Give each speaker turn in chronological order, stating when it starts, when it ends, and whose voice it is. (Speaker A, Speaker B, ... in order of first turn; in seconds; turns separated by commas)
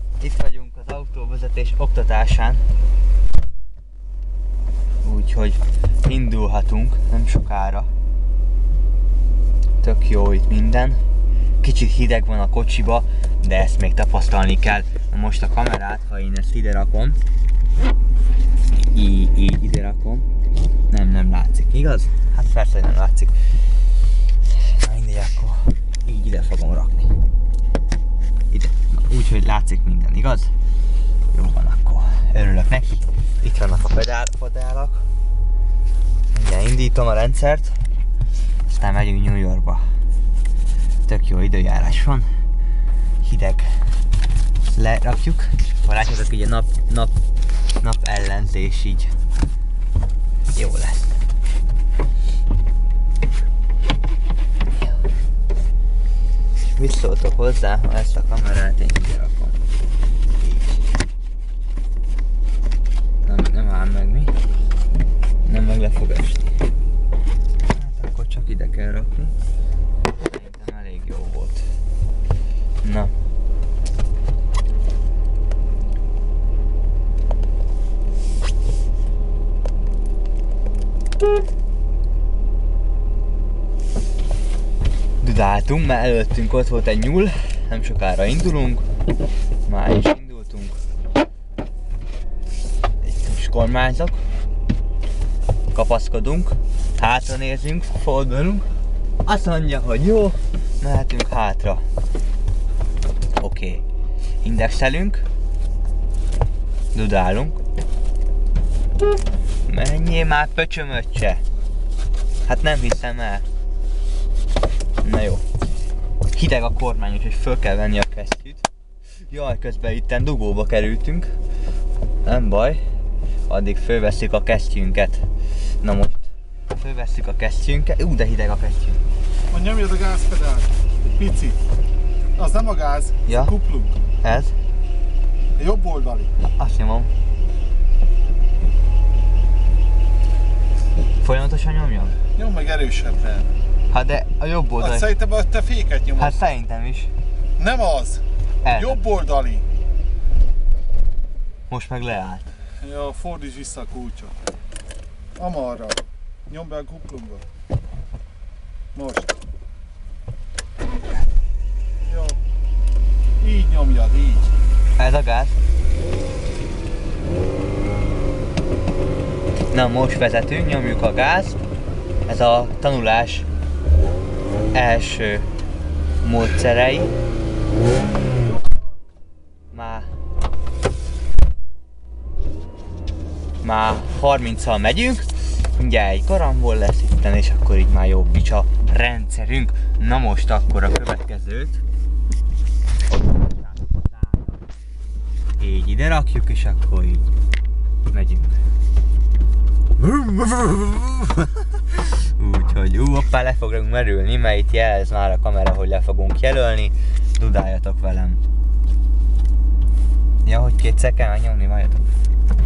Speaker A: 0.2-2.7, Speaker A: 5.0-7.9, Speaker A: 9.8-11.0, Speaker A: 11.6-17.2, Speaker A: 18.9-20.3, Speaker A: 20.9-23.3, Speaker A: 24.5-27.2, Speaker A: 28.5-30.5, Speaker A: 31.3-35.0, Speaker A: 36.3-37.8, Speaker A: 38.7-39.9, Speaker A: 41.1-42.3, Speaker A: 43.2-43.9, Speaker A: 44.6-47.1, Speaker A: 47.8-49.1, Speaker A: 50.5-51.2, Speaker A: 56.7-59.6, Speaker A: 60.4-60.8, Speaker A: 63.2-64.3, Speaker A: 65.5-66.6, Speaker A: 67.7-69.3, Speaker A: 70.2-71.7, Speaker A: 72.8-73.1, Speaker A: 85.2-88.9, Speaker A: 89.7-90.8, Speaker A: 93.0-94.2, Speaker A: 95.7-98.7, Speaker A: 99.2-101.8, Speaker A: 103.4-103.8, Speaker A: 104.4-105.2, Speaker A: 106.9-107.6, Speaker A: 109.7-111.4, Speaker A: 112.5-113.5, Speaker A: 115.0-115.5, Speaker A: 116.3-118.7, Speaker A: 119.2-121.3, Speaker A: 122.2-122.8, Speaker A: 123.5-125.3, Speaker A: 125.8-129.0, Speaker B: 129.5-131.6, Speaker B: 132.4-134.0, Speaker A: 133.3-133.6, Speaker A: 134.2-134.5, Speaker B: 135.6-136.3, Speaker A: 136.4-137.1, Speaker A: 141.2-142.2, Speaker B: 142.4-143.5, Speaker A: 143.9-145.1, Speaker B: 144.8-146.3, Speaker A: 146.1-147.1, Speaker B: 147.6-148.2, Speaker A: 148.6-149.0, Speaker B: 148.7-149.7, Speaker A: 151.7-152.5, Speaker B: 152.8-154.3, Speaker B: 155.4-157.4, Speaker B: 158.9-159.3, Speaker B: 162.1-162.4, Speaker B: 163.4-164.5, Speaker A: 165.0-165.6, Speaker A: 169.7-171.6, Speaker A: 172.3-173.5, Speaker A: 174.7-175.5, Speaker A: 176.2-177.1, Speaker A: 179.7-180.1, Speaker A: 183.6-191.8, Speaker A: 193.1-194.6, Speaker A: 195.6-197.3, Speaker A: 198.1-198.6, Speaker A: 200.0-208.4, Speaker A: 210.4-212.1